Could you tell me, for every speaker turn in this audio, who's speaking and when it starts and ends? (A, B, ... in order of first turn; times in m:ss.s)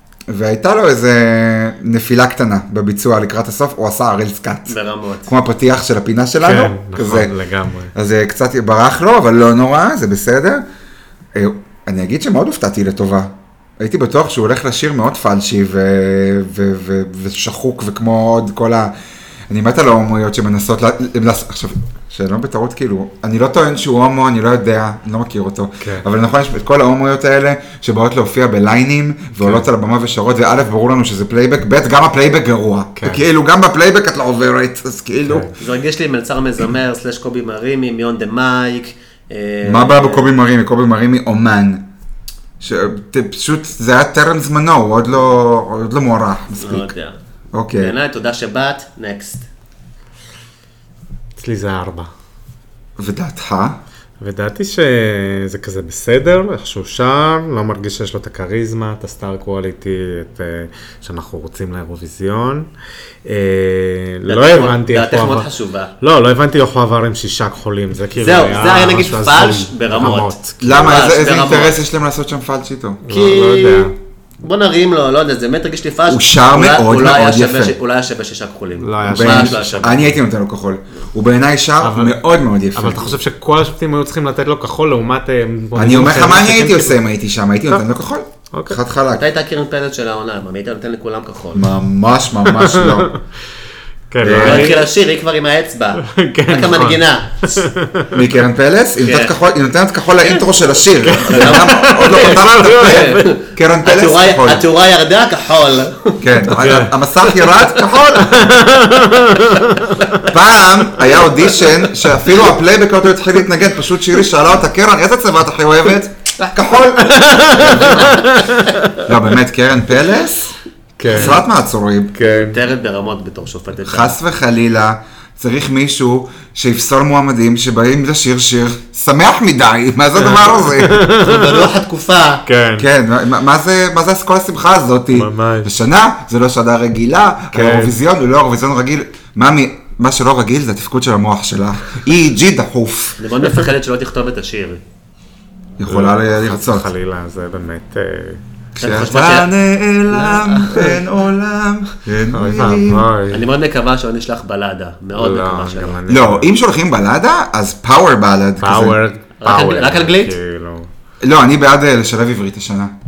0:00.3-0:07.3 A
0:04.7-0:05.3 B
0:06.4-0:07.9 C
0:08.0-0:10.6 A
0:11.4-0:18.9 A
0:19.5-0:35.5 A
0:25.8-0:26.1 C
0:29.4-0:29.7 C
0:33.0-0:33.3 C
0:35.3-0:35.6 C
0:35.6-0:40.3 B
0:39.6-0:41.8 A
0:42.6-0:46.9 A
0:46.6-0:47.2 B
0:47.5-0:48.0 A
0:47.8-0:49.5 B
0:51.4-0:52.1 C
0:53.0-0:53.8 A
0:54.2-1:02.7 C
1:03.2-1:05.5 C
1:04.3-1:05.9 B
1:06.0-1:10.9 C
1:08.2-1:11.8 B
1:10.6-1:13.0 A
1:13.0-1:13.9 C
1:13.1-1:20.1 B
1:16.1-1:17.8 A
1:18.8-1:20.2 C
1:19.1-1:23.2 A
1:21.8-1:22.2 C
1:22.7-1:27.0 C
1:25.8-1:29.3 A
1:28.5-1:28.8 C
1:29.2-1:31.7 B
1:31.5-1:33.1 A
1:32.4-1:33.2 C
1:34.1-1:34.9 C
1:34.2-1:34.8 A
1:34.4-1:37.7 B
1:36.0-1:38.2 C
1:38.1-1:44.7 A
1:39.0-1:39.4 B
1:40.2-1:40.5 B
1:41.0-1:43.3 C
1:41.2-1:46.5 B
1:46.2-1:48.5 A
1:46.5-1:46.9 C
1:47.2-1:47.8 B
1:48.2-1:50.3 C
1:50.2-1:58.0 A
1:57.1-1:59.1 C
1:57.3-1:58.4 B
1:59.0-2:00.5 A
2:01.0-2:01.4 C
2:01.1-2:01.4 B
2:01.1-2:02.2 A
2:02.1-2:02.6 C
2:02.2-2:04.2 B
2:03.8-2:11.0 A
2:10.2-2:11.7 C
2:11.1-2:12.4 B
2:12.5-2:12.9 C
2:12.8-2:23.2 A
2:15.1-2:15.8 C
2:17.5-2:18.0 C
2:23.2-2:24.8 B
2:25.8-2:26.9 A
2:25.9-2:28.4 C
2:28.8-2:33.1 A
2:28.8-2:29.5 B
2:30.1-2:31.0 B
2:32.3-2:33.4 C
2:33.3-2:36.0 B
2:35.2-2:36.5 C
2:36.1-2:39.0 A
2:38.6-2:40.9 C
2:39.4-2:40.4 B
2:41.2-2:42.9 A